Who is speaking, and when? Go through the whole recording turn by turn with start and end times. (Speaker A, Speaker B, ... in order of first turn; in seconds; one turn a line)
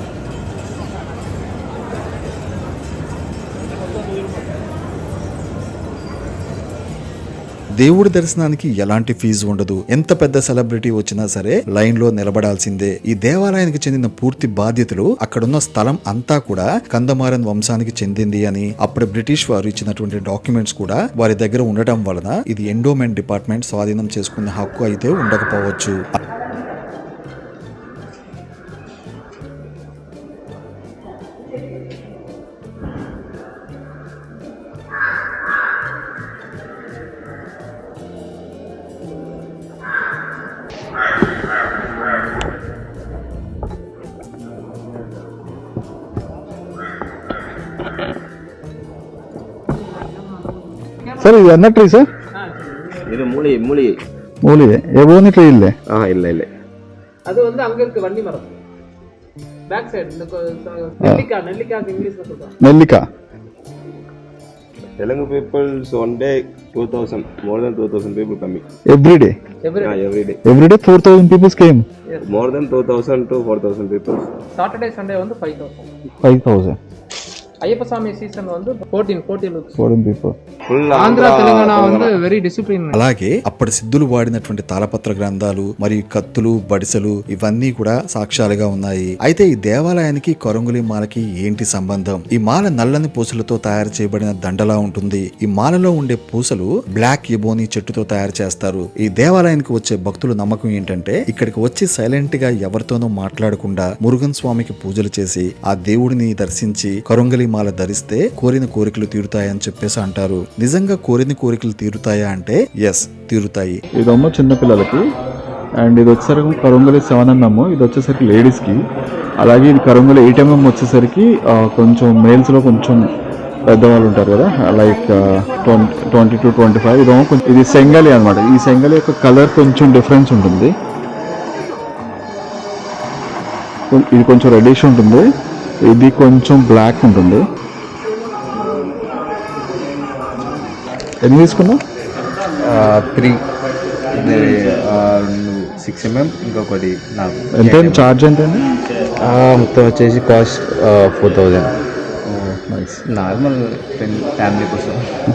Speaker A: 7.8-26.0
Speaker B: 51.2-52.1
Speaker C: 52.3-53.1
Speaker D: 53.0-54.0
Speaker B: 54.4-55.8
Speaker D: 55.9-56.5
Speaker C: 57.2-58.5
Speaker C: 59.7-62.5
Speaker B: 62.6-63.1
Speaker D: 65.0-68.6
Speaker B: 68.9-69.3
Speaker C: 69.6-70.0
Speaker D: 69.8-70.4
Speaker B: 70.4-71.9
Speaker D: 72.2-74.3
Speaker C: 74.5-75.9
Speaker B: 76.2-76.8
Speaker C: 77.6-79.8
Speaker B: 79.8-80.3
Speaker D: 80.7-82.1
Speaker C: 80.9-83.0
Speaker A: 82.9-113.8
Speaker B: 113.9-115.1
Speaker B: 115.8-118.8
Speaker B: 119.4-123.1
Speaker B: 123.7-130.7
Speaker B: 133.9-135.3
Speaker B: 135.8-137.5
Speaker B: 141.2-141.8
Speaker E: 142.6-143.4
Speaker E: 144.1-148.1
Speaker B: 147.5-148.7
Speaker E: 149.2-155.1
Speaker B: 152.7-153.0